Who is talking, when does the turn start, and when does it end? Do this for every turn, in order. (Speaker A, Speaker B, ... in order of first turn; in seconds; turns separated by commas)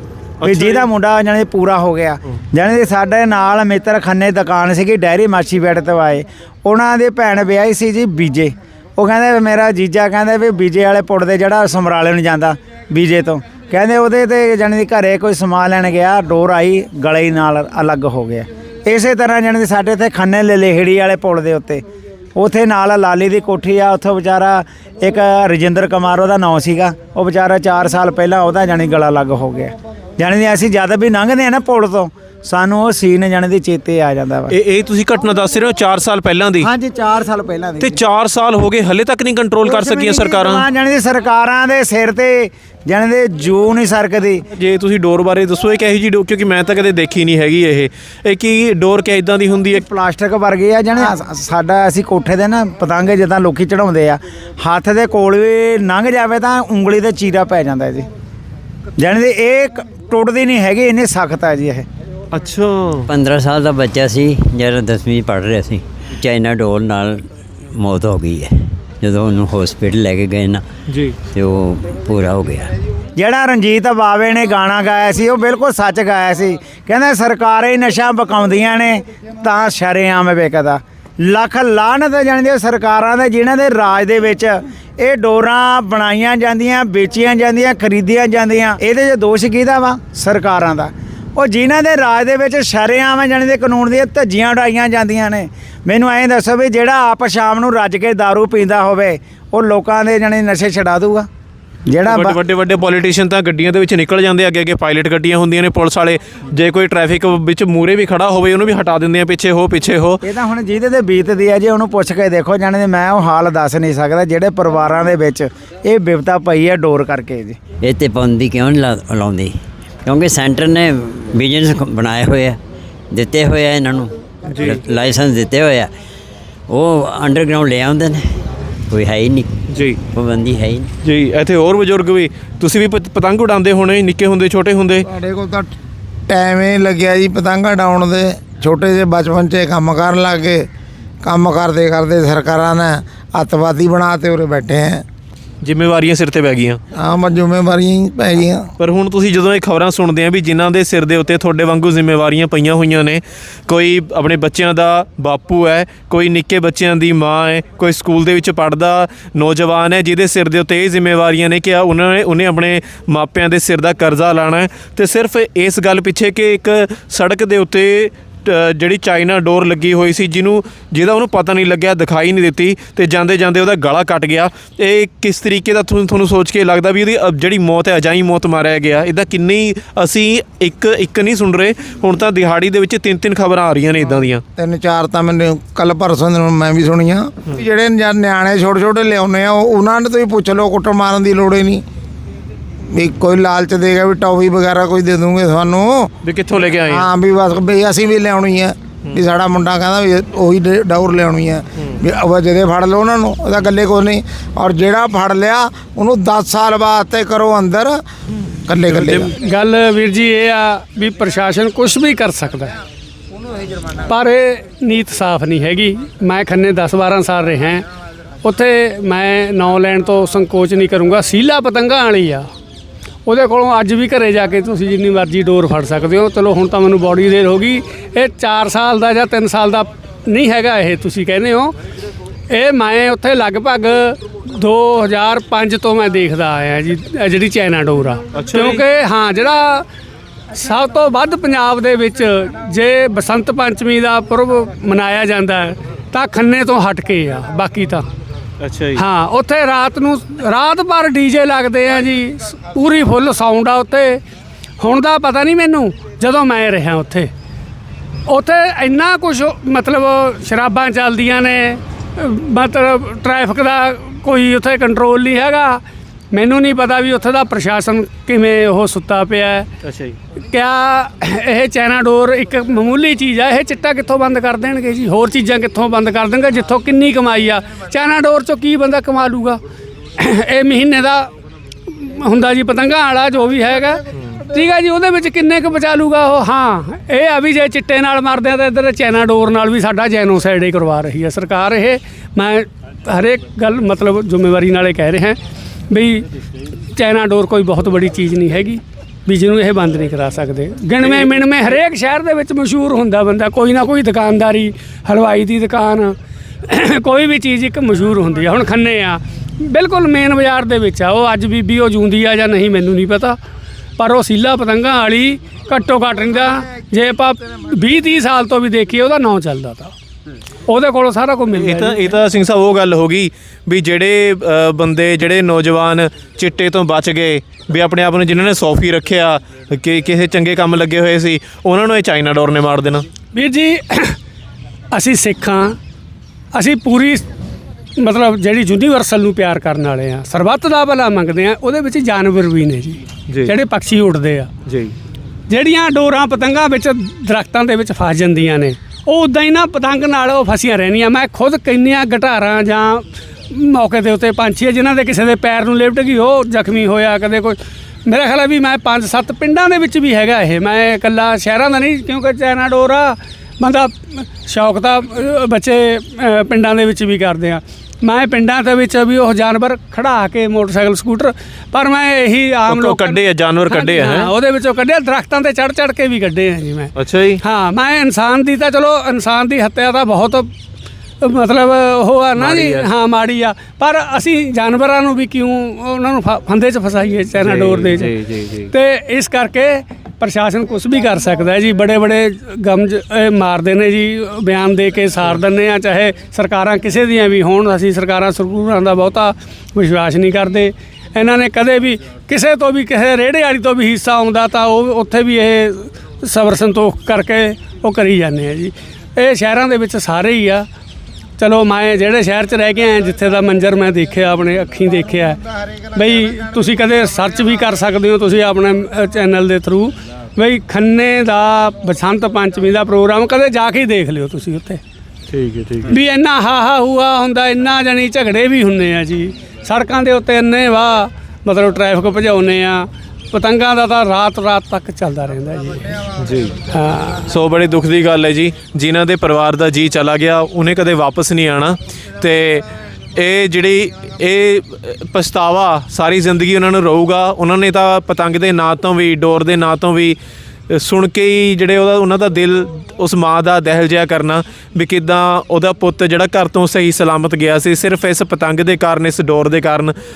Speaker A: 0.4-0.9, Speaker B: 0.4-21.8, Speaker B: 22.4-34.5, Speaker A: 34.5-36.7, Speaker B: 36.6-38.0, Speaker A: 37.8-40.6, Speaker B: 39.6-44.4, Speaker A: 44.5-49.8, Speaker B: 49.7-58.0, Speaker B: 59.0-61.9, Speaker A: 62.3-63.1, Speaker C: 63.1-70.6, Speaker A: 70.9-71.2, Speaker C: 71.3-72.7, Speaker B: 73.2-101.3, Speaker B: 101.9-102.4, Speaker A: 102.0-110.2, Speaker B: 110.2-117.6, Speaker C: 117.8-122.6, Speaker C: 123.1-125.9, Speaker A: 124.5-124.8, Speaker C: 126.7-128.2, Speaker C: 128.9-129.5, Speaker A: 129.7-130.0, Speaker C: 130.1-130.9, Speaker A: 131.0-135.1, Speaker D: 135.0-135.7, Speaker D: 136.3-140.7, Speaker D: 141.2-145.0, Speaker A: 145.6-146.8, Speaker D: 146.9-148.7, Speaker A: 148.8-184.4, Speaker D: 184.6-191.8, Speaker D: 192.9-196.1, Speaker A: 196.2-197.1, Speaker D: 196.8-208.0, Speaker D: 208.7-209.3, Speaker A: 208.9-209.3, Speaker E: 209.3-212.8, Speaker E: 214.0-217.9, Speaker E: 218.4-222.5, Speaker E: 223.2-231.7, Speaker E: 232.5-239.9, Speaker A: 238.3-238.8, Speaker E: 240.5-248.1, Speaker A: 248.6-249.0, Speaker E: 248.9-254.2, Speaker E: 254.8-257.3, Speaker E: 258.3-269.7, Speaker A: 269.8-270.1, Speaker E: 270.5-279.6, Speaker E: 280.2-281.3, Speaker E: 281.9-295.4, Speaker E: 295.9-296.3, Speaker E: 296.9-306.1, Speaker A: 301.0-301.3, Speaker E: 306.6-313.4, Speaker E: 314.0-319.9, Speaker E: 320.7-322.1, Speaker A: 321.5-333.0, Speaker E: 333.3-334.2, Speaker E: 334.9-335.8, Speaker E: 336.5-337.2, Speaker E: 338.0-344.5, Speaker A: 344.7-344.9, Speaker E: 345.5-380.5, Speaker A: 372.7-374.3, Speaker A: 376.9-377.4, Speaker E: 381.2-388.1, Speaker A: 382.4-382.9, Speaker A: 387.4-388.7, Speaker E: 388.7-410.6, Speaker E: 411.4-424.8, Speaker A: 425.3-425.9, Speaker E: 425.9-436.1, Speaker A: 436.2-436.7, Speaker E: 436.7-437.2, Speaker A: 437.2-442.6, Speaker A: 443.2-450.2, Speaker A: 450.7-459.9